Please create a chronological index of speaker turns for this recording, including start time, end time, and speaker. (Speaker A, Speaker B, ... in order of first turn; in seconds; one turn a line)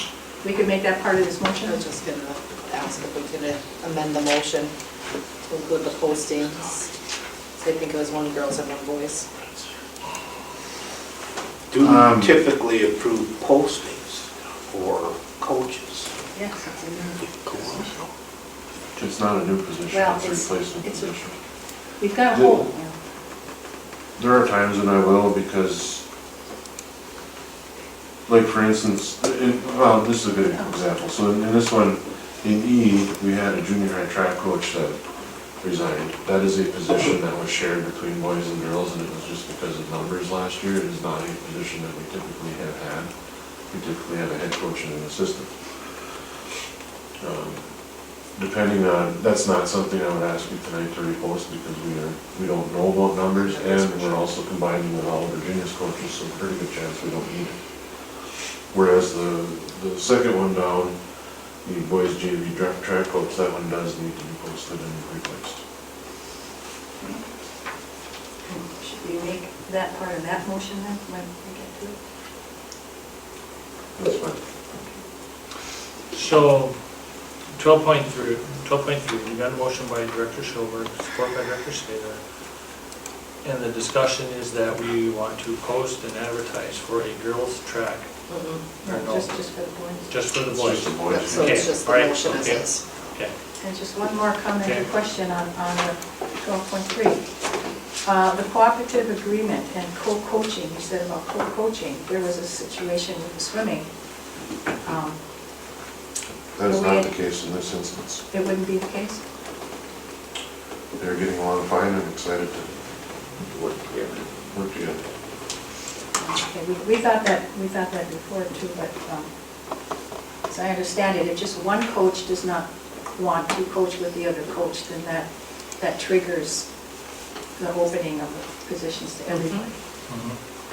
Speaker A: 0.4-1.8
Speaker B: 1.6-4.7
Speaker B: 5.5-6.9
Speaker B: 7.6-9.3
Speaker C: 11.7-16.1
Speaker D: 11.8-12.4
Speaker A: 16.3-17.3
Speaker D: 19.0-21.4
Speaker A: 19.9-21.1
Speaker A: 22.0-22.9
Speaker D: 22.3-22.7
Speaker D: 24.2-26.0
Speaker D: 28.3-35.0
Speaker A: 30.5-30.8
Speaker D: 35.6-43.1
Speaker D: 43.7-45.5
Speaker D: 47.2-47.7
Speaker D: 48.3-57.5
Speaker B: 53.5-54.3
Speaker D: 58.7-61.0
Speaker D: 61.6-65.6
Speaker A: 67.0-67.2
Speaker A: 68.5-72.0
Speaker D: 74.0-74.4
Speaker E: 76.1-76.8
Speaker E: 77.5-82.2
Speaker E: 83.4-88.1
Speaker B: 88.3-88.6
Speaker E: 88.8-89.4
Speaker A: 88.8-90.1
Speaker E: 90.1-93.3
Speaker D: 90.5-91.7
Speaker B: 91.1-92.8
Speaker A: 93.6-97.2
Speaker A: 98.0-103.9
Speaker A: 104.8-105.2
Speaker D: 106.5-108.2
Speaker A: 106.7-107.1
Speaker A: 108.3-109.2
Speaker D: 111.0-112.7
Speaker C: 113.6-114.2
Speaker D: 114.5-115.0
Speaker A: 116.2-119.3
Speaker A: 120.5-126.7
Speaker A: 127.6-129.7
Speaker B: 129.3-129.7
Speaker E: 130.1-130.4